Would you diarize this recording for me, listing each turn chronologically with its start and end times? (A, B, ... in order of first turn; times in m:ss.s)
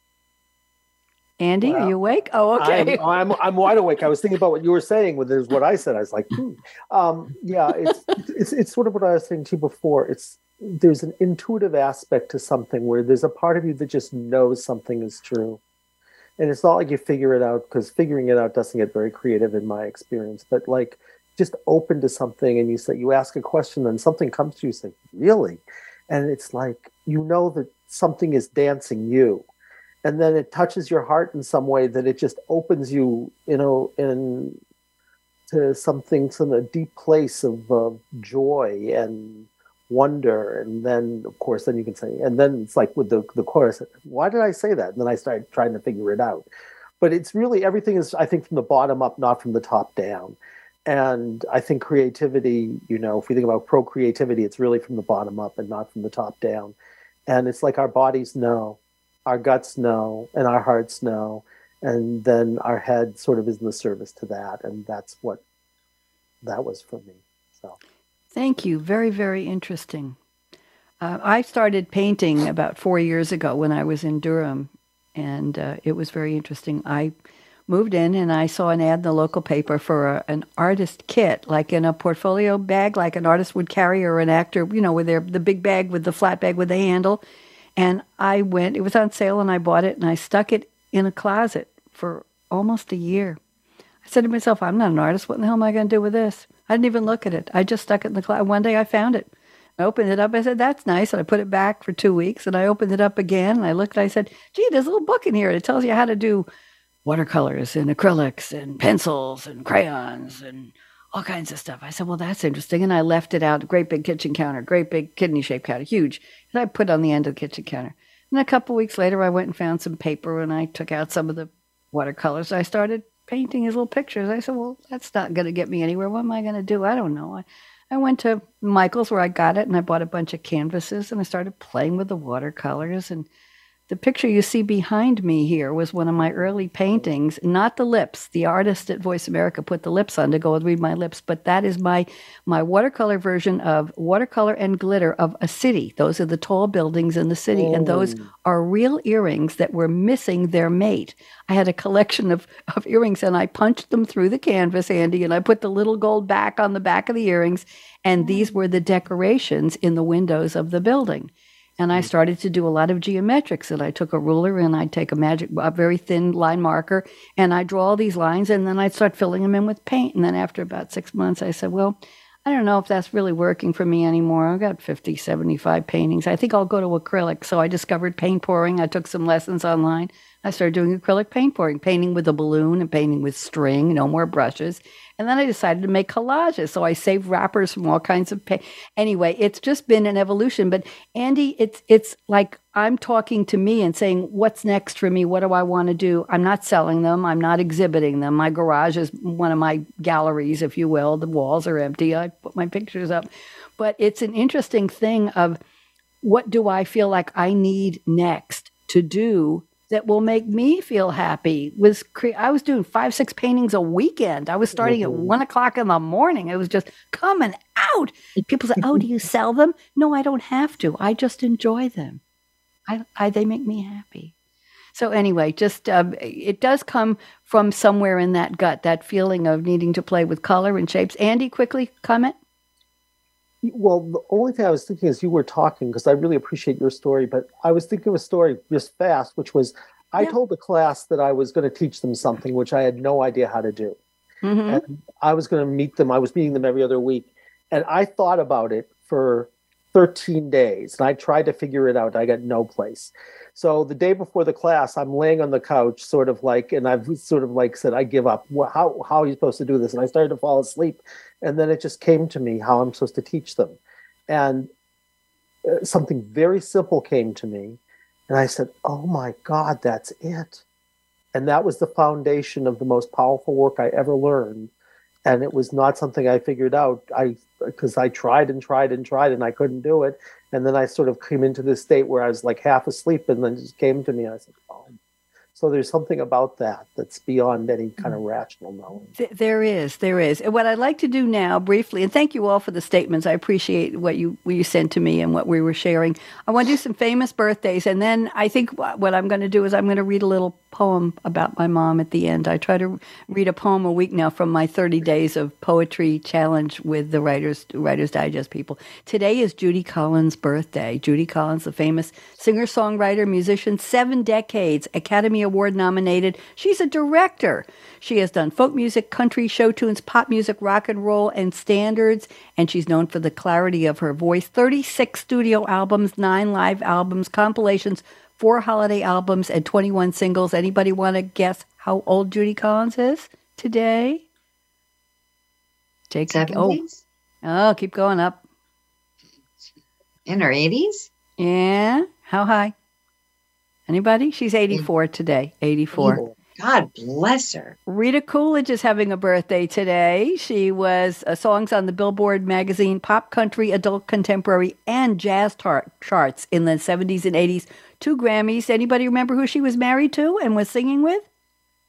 0:01.4-0:03.0 A
0:01.6-0:01.9 B
0:02.6-0:15.6 B
0:16.4-0:29.5 B
0:30.0-0:34.6 B
0:35.5-0:46.5 B
0:47.0-0:56.7 B
0:57.3-1:05.4 B
1:06.4-1:07.8 B
1:08.3-1:10.2 A
1:11.0-1:17.1 A
1:17.7-1:27.2 A
1:27.8-1:33.4 A
1:34.0-1:46.5 A
1:47.0-2:13.3 A
2:13.9-3:23.3 A
2:16.2-2:17.0 B
2:27.5-2:28.3 B
3:23.8-3:25.6 A
3:26.2-3:42.2 A
3:34.8-3:35.4 B
3:42.9-3:44.3 A
3:44.9-3:52.4 A
3:53.6-4:04.0 B
4:04.4-4:04.8 A
4:04.7-4:24.7 B
4:25.6-4:30.6 B
4:31.3-4:34.7 B
4:35.2-4:44.9 B
4:45.5-4:49.1 B
4:49.2-5:34.2 A
5:36.1-5:36.8 A
5:36.3-5:37.0 C
5:37.4-5:38.4 A
5:40.2-5:41.1 C
5:41.4-5:42.7 A
5:43.9-5:46.2 A
5:45.9-5:47.8 C
5:47.9-6:01.3 A